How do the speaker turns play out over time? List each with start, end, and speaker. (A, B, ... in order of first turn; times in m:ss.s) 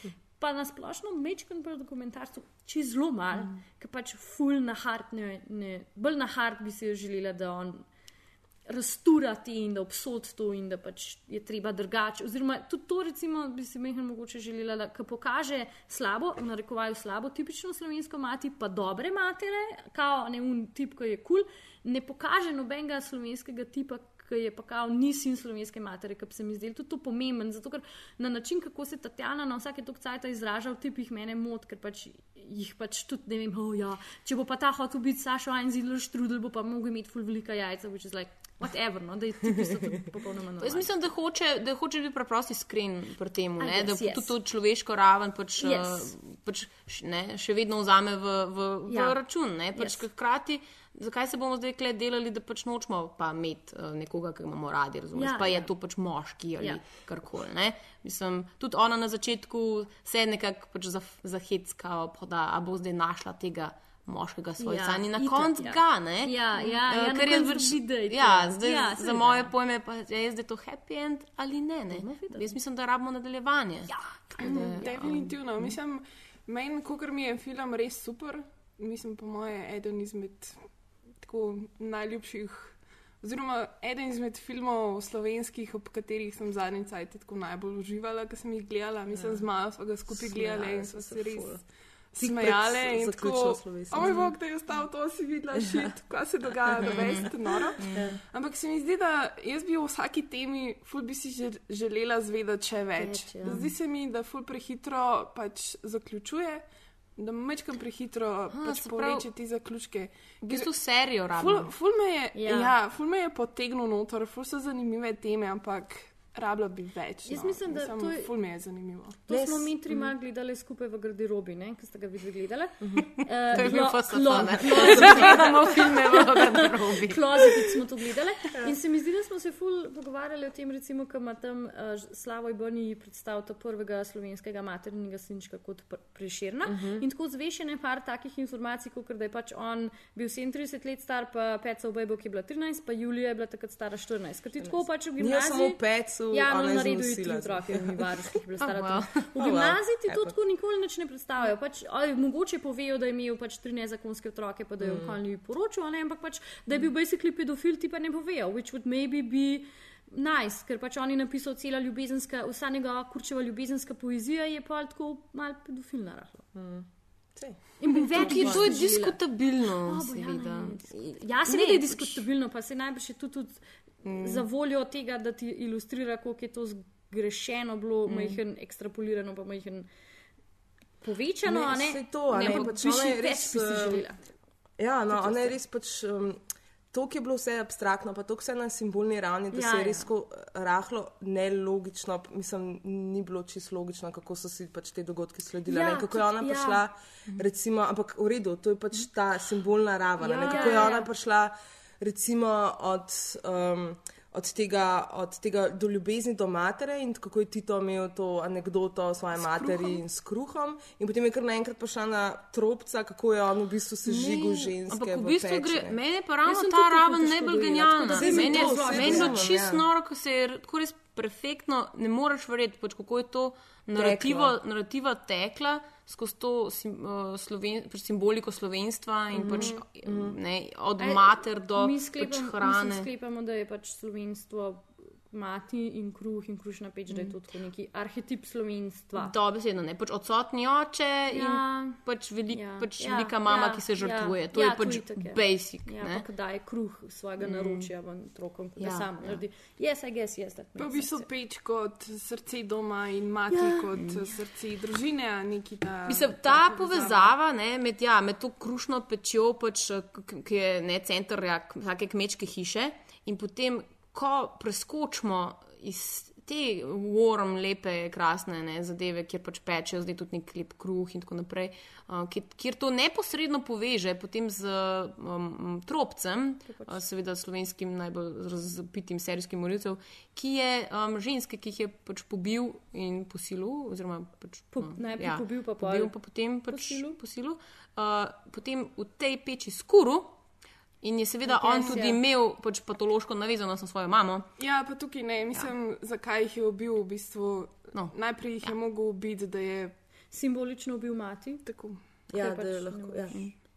0:00.4-0:07.9 A
0:08.7-0:40.9 A
0:40.6-1:15.3 B
0:43.6-0:44.3 A
0:45.6-0:46.1 A
0:48.9-0:49.2 A
0:55.1-0:55.7 A
1:04.6-1:09.5 A
1:11.9-1:12.5 A
1:13.9-1:15.0 A
1:14.4-1:20.6 C
1:21.2-1:31.6 C
1:30.1-1:31.6 A
1:32.1-1:46.6 C
1:32.2-1:34.3 D
1:36.9-1:37.3 B
1:37.9-1:38.2 A
1:43.0-1:43.7 A
1:47.2-1:50.7 C
1:48.5-1:49.3 B
1:50.4-1:51.7 B
1:51.3-1:59.2 C
1:52.4-1:52.7 A
1:57.3-1:58.3 A
1:59.3-2:25.8 A
1:59.3-1:59.7 D
2:02.8-2:03.1 D
2:03.5-2:07.5 B
2:05.0-2:05.2 D
2:16.7-2:17.0 D
2:24.6-2:28.1 D
2:26.3-2:46.4 A
2:28.6-2:29.3 B
2:29.4-2:30.4 D
2:34.8-2:35.2 D
2:46.5-2:48.8 D
2:47.8-2:49.2 A
2:48.1-2:52.2 B
2:49.9-2:59.9 A
2:54.0-2:54.4 B
2:58.1-2:58.4 B
3:01.0-3:04.2 A
3:01.4-3:04.0 D
3:02.3-3:03.8 B
3:04.8-3:36.0 D
3:05.1-3:05.4 A
3:09.5-3:10.0 A
3:15.7-3:16.8 A
3:20.2-3:21.1 A
3:29.5-3:29.9 A
3:34.1-3:53.1 B
3:36.4-3:39.4 A
3:38.0-3:39.8 D
3:43.9-3:44.6 D
3:49.3-3:50.4 D
3:51.0-3:59.3 A
3:59.2-4:06.2 B
4:01.3-4:02.0 A
4:02.5-4:11.3 A
4:07.4-4:07.9 B
4:08.8-4:09.4 B
4:10.8-4:17.3 C
4:13.5-4:13.8 A
4:16.1-4:50.4 B
4:36.7-4:37.0 A
4:44.8-4:46.1 A
4:46.7-4:47.2 A
4:51.0-4:54.5 B
4:51.5-4:52.2 A
4:54.6-5:00.0 C
4:57.9-4:58.7 B
5:00.3-5:01.7 A
5:01.6-5:02.0 C
5:02.3-5:03.4 D
5:02.3-5:03.5 A